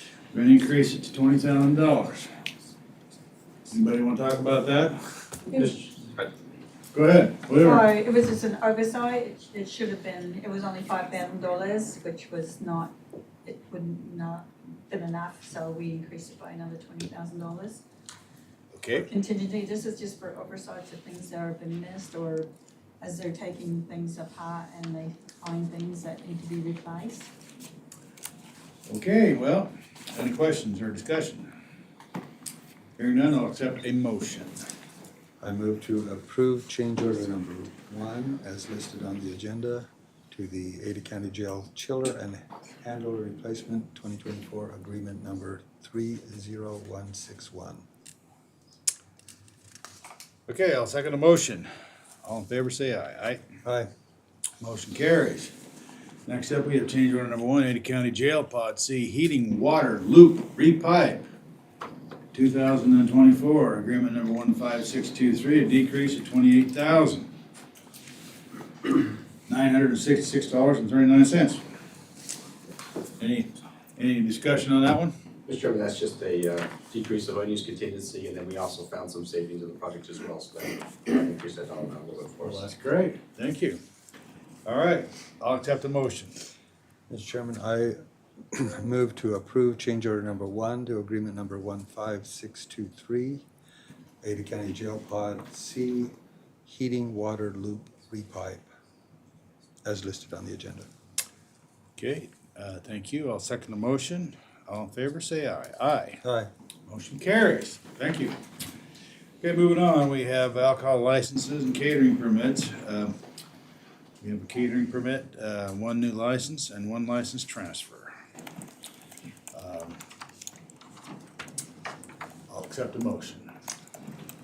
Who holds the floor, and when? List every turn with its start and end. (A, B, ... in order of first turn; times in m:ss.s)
0:00.3-0:02.3 A
0:03.7-0:05.0 A
0:06.9-0:07.9 A
0:07.6-0:12.9 B
0:13.4-0:17.8 B
0:18.7-0:19.1 A
0:18.9-0:22.5 B
0:23.0-0:27.3 B
0:28.9-0:31.5 A
0:33.0-0:34.6 A
0:35.4-0:47.8 C
0:50.5-0:51.7 A
0:52.2-0:53.4 A
0:53.6-0:53.9 C
0:54.6-0:55.5 A
0:56.2-1:01.2 A
1:02.3-1:07.3 A
1:09.5-1:11.6 A
1:13.2-1:15.1 A
1:15.4-1:22.6 D
1:22.4-1:23.8 A
1:24.6-1:26.4 A
1:27.1-1:27.9 C
1:28.5-1:33.4 C
1:34.2-1:36.1 C
1:36.6-1:38.6 C
1:39.8-1:40.9 C
1:42.0-1:46.2 A
1:46.2-1:46.5 C
1:46.9-1:48.4 A
1:49.4-1:53.2 A
1:54.2-1:58.1 A
1:59.5-2:00.0 A
2:02.5-2:03.5 A